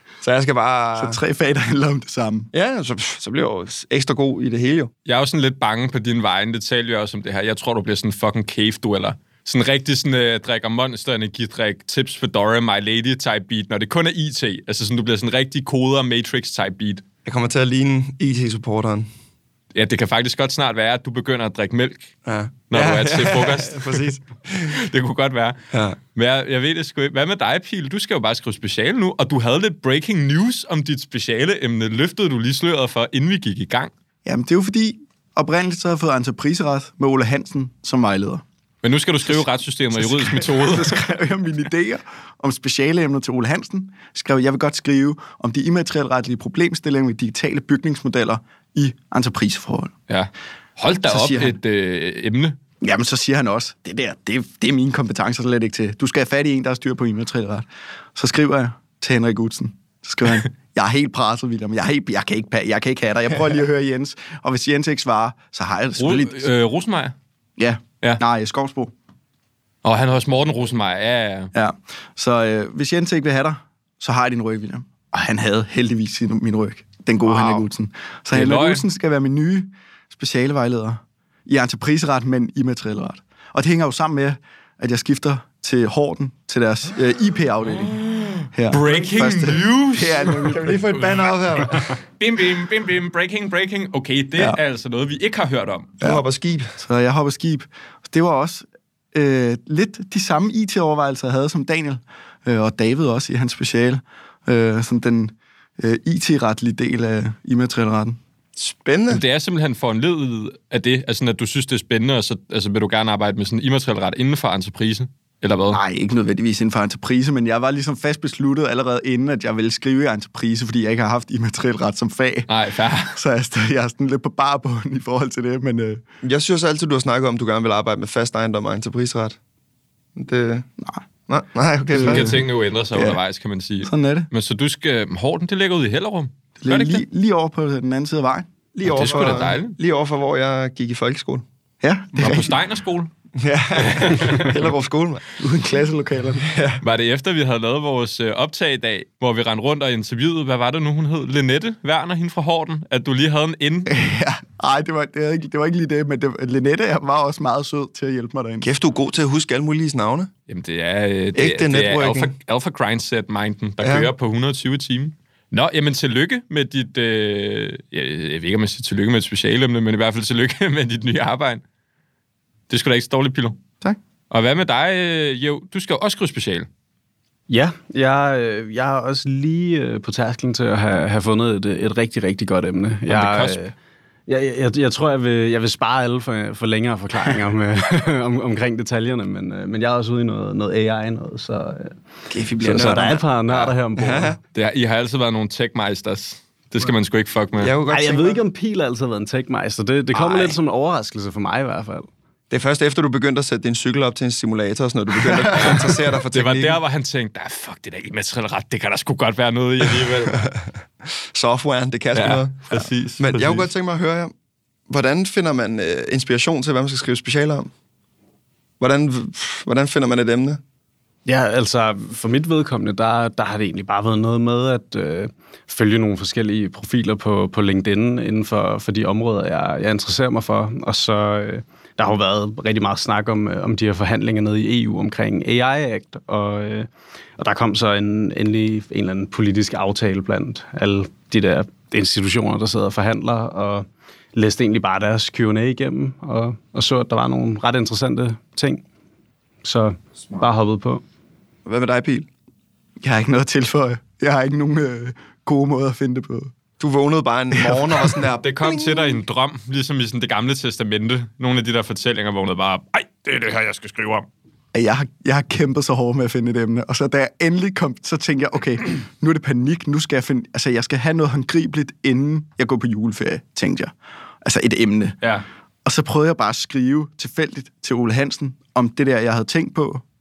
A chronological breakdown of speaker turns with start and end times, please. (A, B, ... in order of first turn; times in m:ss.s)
0:00.2-0:01.2 A
0:01.0-0:02.5 B
0:02.5-0:04.9 A
0:05.0-0:17.0 C
0:17.2-0:19.1 A
0:19.7-0:22.2 C
0:22.2-0:24.8 A
0:22.7-0:24.0 C
0:24.7-0:25.6 C
0:26.1-0:33.9 C
0:34.2-0:38.4 B
0:38.8-0:41.1 C
0:40.0-0:49.9 B
0:50.1-0:52.6 C
0:51.1-0:51.6 B
0:52.8-1:06.5 B
1:06.0-1:07.2 C
1:07.6-1:08.9 B
1:09.8-1:11.5 C
1:11.5-1:28.0 B
1:17.3-1:17.7 C
1:18.3-1:18.8 C
1:27.8-1:36.0 C
1:28.5-1:30.8 B
1:30.5-1:32.0 A
1:36.0-1:36.8 A
1:36.8-1:48.2 B
1:48.6-1:49.2 A
1:49.1-1:55.8 C
1:55.7-2:02.5 B
2:02.5-2:03.2 C
2:03.0-2:06.0 B
2:06.2-2:09.4 A
2:10.2-2:10.7 A
2:11.3-2:12.4 A
2:11.9-2:13.2 B
2:12.0-2:17.0 C
2:13.9-2:14.3 B
2:16.6-2:19.4 B
2:18.8-2:21.4 A
2:18.8-2:19.8 C
2:21.8-2:22.5 B
2:22.2-2:23.1 C
2:23.4-2:25.4 A
2:23.8-2:24.6 C
2:25.4-2:26.5 B
2:26.5-2:26.8 A
2:26.8-2:33.9 C
2:33.9-2:38.7 B
2:38.6-2:40.3 A
2:40.5-2:51.6 C
2:41.4-2:42.3 A
2:43.8-2:44.1 A
2:52.7-2:53.6 C
2:54.3-2:56.7 C
2:57.5-3:03.8 D
3:03.1-3:03.6 C
3:04.3-3:12.0 D
3:12.3-3:14.4 A
3:12.6-3:14.4 D
3:14.5-3:17.7 C
3:17.6-3:18.4 A
3:17.9-3:22.1 D
3:20.1-3:20.6 A
3:22.5-3:26.8 A
3:25.5-3:30.5 C
3:30.4-3:34.3 A
3:32.1-3:33.7 C
3:34.9-3:37.7 A
3:38.8-3:40.6 A
3:41.3-4:08.8 D
4:09.6-4:11.0 D
4:11.7-4:12.3 A
4:13.0-4:16.5 B
4:16.8-4:19.2 A
4:17.5-4:18.0 B
4:18.4-4:24.3 C
4:24.7-4:35.2 B
4:35.2-4:35.5 C
4:35.8-4:40.0 B